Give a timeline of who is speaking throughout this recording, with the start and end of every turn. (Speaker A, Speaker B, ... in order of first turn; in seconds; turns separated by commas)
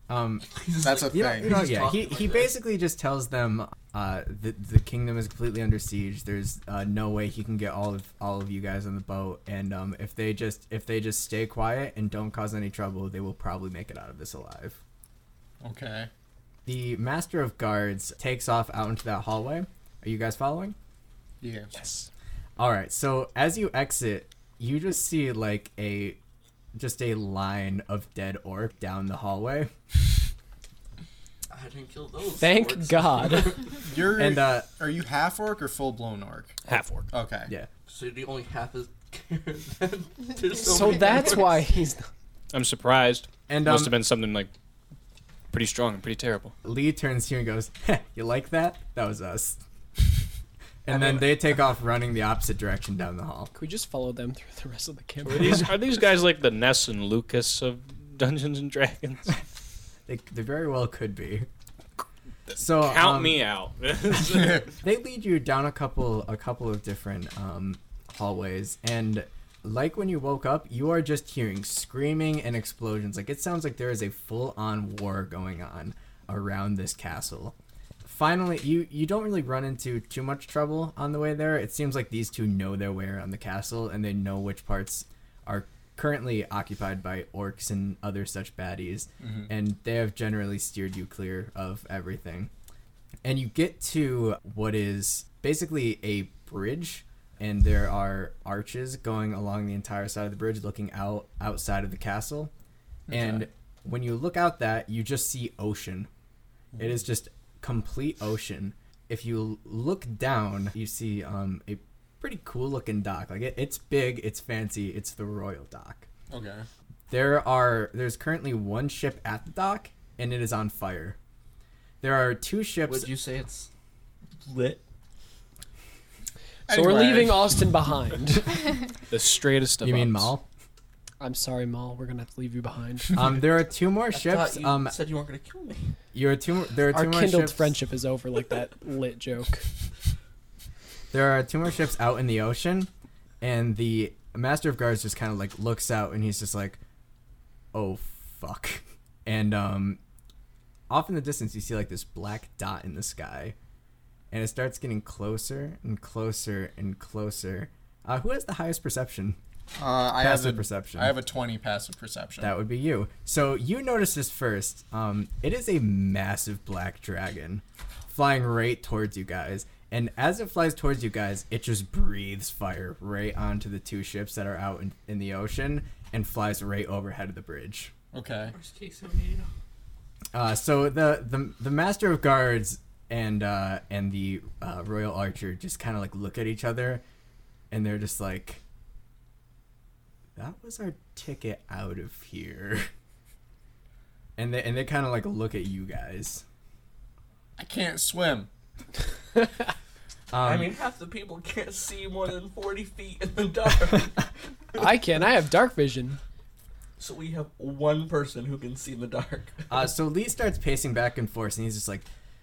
Speaker A: 0.1-0.5, Speaker B: 0.5-2.5, Speaker C: 0.8-1.7, Speaker A: 1.1-14.8, Speaker C: 15.6-16.1, Speaker A: 16.7-20.8, Speaker C: 21.4-21.7, Speaker D: 21.8-22.1, Speaker A: 22.6-26.2, Speaker A: 26.7-29.7, Speaker B: 31.5-33.8, Speaker E: 32.4-33.6, Speaker C: 33.8-36.5, Speaker A: 34.2-34.7, Speaker D: 36.7-37.1, Speaker C: 37.1-37.5, Speaker B: 37.9-41.6, Speaker E: 40.6-42.1, Speaker D: 42.5-44.5, Speaker A: 43.5-44.0, Speaker D: 45.5-46.5, Speaker A: 46.6-49.6, Speaker A: 50.9-53.5, Speaker E: 53.5-55.7, Speaker D: 55.2-59.4, Speaker A: 60.1-61.5, Speaker D: 62.5-64.7, Speaker A: 62.6-63.4, Speaker A: 64.2-92.5, Speaker C: 89.2-89.5, Speaker A: 93.2-102.5, Speaker C: 103.1-103.5, Speaker A: 103.1-106.1, Speaker C: 106.7-107.0, Speaker A: 106.8-116.1, Speaker C: 116.3-116.7, Speaker A: 117.1-121.2, Speaker A: 122.0-123.1, Speaker B: 122.9-123.7, Speaker B: 124.5-124.8, Speaker C: 126.7-127.5, Speaker E: 126.7-128.6, Speaker D: 129.1-130.3, Speaker A: 129.8-130.4, Speaker E: 131.2-133.4, Speaker A: 133.1-135.0, Speaker B: 134.1-136.0, Speaker A: 136.1-137.7, Speaker E: 136.9-139.7, Speaker A: 141.1-142.9, Speaker A: 143.4-146.8, Speaker A: 147.7-150.0, Speaker A: 150.9-153.6, Speaker A: 154.3-159.4, Speaker C: 159.8-162.5, Speaker A: 160.2-161.1, Speaker A: 162.4-177.9, Speaker C: 178.1-178.6, Speaker B: 178.6-179.5, Speaker A: 180.3-187.0, Speaker A: 187.7-188.6, Speaker A: 190.4-192.9, Speaker A: 194.4-196.4, Speaker C: 197.6-198.5, Speaker A: 200.3-200.7, Speaker B: 200.4-204.3, Speaker E: 204.8-206.2, Speaker B: 207.0-209.8, Speaker A: 209.7-212.1